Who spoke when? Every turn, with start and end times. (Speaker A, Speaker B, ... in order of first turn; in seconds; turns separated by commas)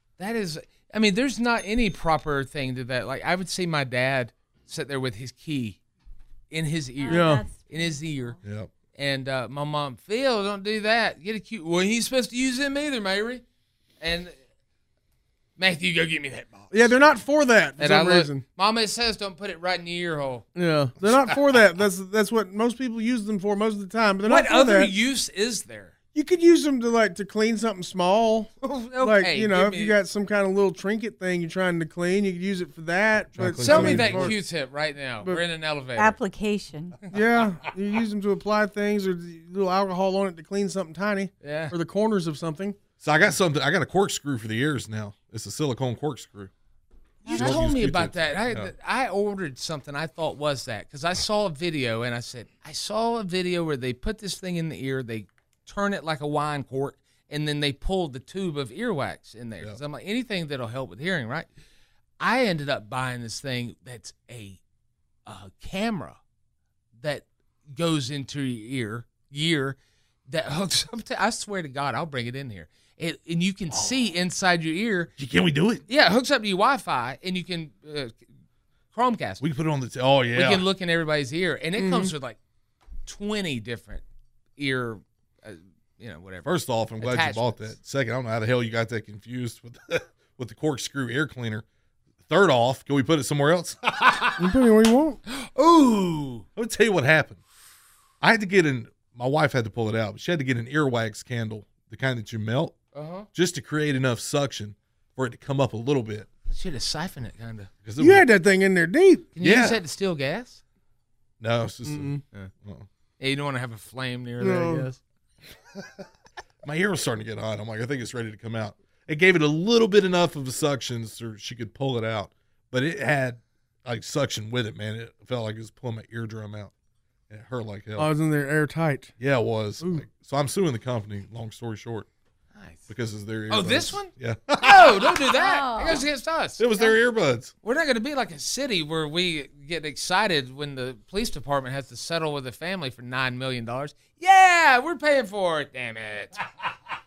Speaker A: 0.2-5.8, Speaker A: 6.5-8.4, Speaker B: 7.0-8.4, Speaker C: 7.1-7.4, Speaker D: 8.4-8.7, Speaker A: 8.9-13.4, Speaker A: 14.0-14.3, Speaker A: 15.6-17.0, Speaker C: 16.7-18.4, Speaker A: 17.8-20.4, Speaker C: 20.5-24.9, Speaker D: 21.0-21.3, Speaker A: 24.2-25.9, Speaker C: 26.1-34.4, Speaker A: 28.6-30.0, Speaker D: 33.4-34.3, Speaker A: 33.6-36.2, Speaker B: 36.0-37.0, Speaker C: 37.1-42.8, Speaker A: 41.4-41.7, Speaker D: 43.0-46.5, Speaker D: 47.2-48.7, Speaker A: 47.2-61.5, Speaker A: 62.2-64.6, Speaker A: 65.2-66.2, Speaker A: 67.0-69.8, Speaker A: 70.3-75.1, Speaker D: 75.2-75.8, Speaker A: 75.9-78.2, Speaker A: 78.9-79.4, Speaker D: 79.4-80.7, Speaker A: 80.3-82.4, Speaker C: 81.8-82.1, Speaker A: 83.0-84.0, Speaker A: 84.6-87.7, Speaker D: 86.5-91.7, Speaker D: 92.2-94.5, Speaker C: 94.4-95.2, Speaker A: 95.3-96.5, Speaker D: 96.5-97.4, Speaker D: 98.2-102.8, Speaker A: 102.9-103.3, Speaker D: 103.3-106.3, Speaker A: 106.5-107.7, Speaker D: 107.8-108.3, Speaker C: 108.0-109.3, Speaker A: 109.3-110.6, Speaker D: 109.4-109.8, Speaker D: 111.4-112.9, Speaker C: 111.8-112.2, Speaker A: 113.2-115.0, Speaker C: 114.4-114.9, Speaker D: 116.6-126.7, Speaker D: 127.3-128.1, Speaker C: 128.0-129.1, Speaker D: 129.2-132.1, Speaker A: 132.5-132.9, Speaker D: 132.9-135.2, Speaker A: 133.5-136.6, Speaker B: 135.3-136.1, Speaker D: 136.6-137.5, Speaker A: 137.6-146.4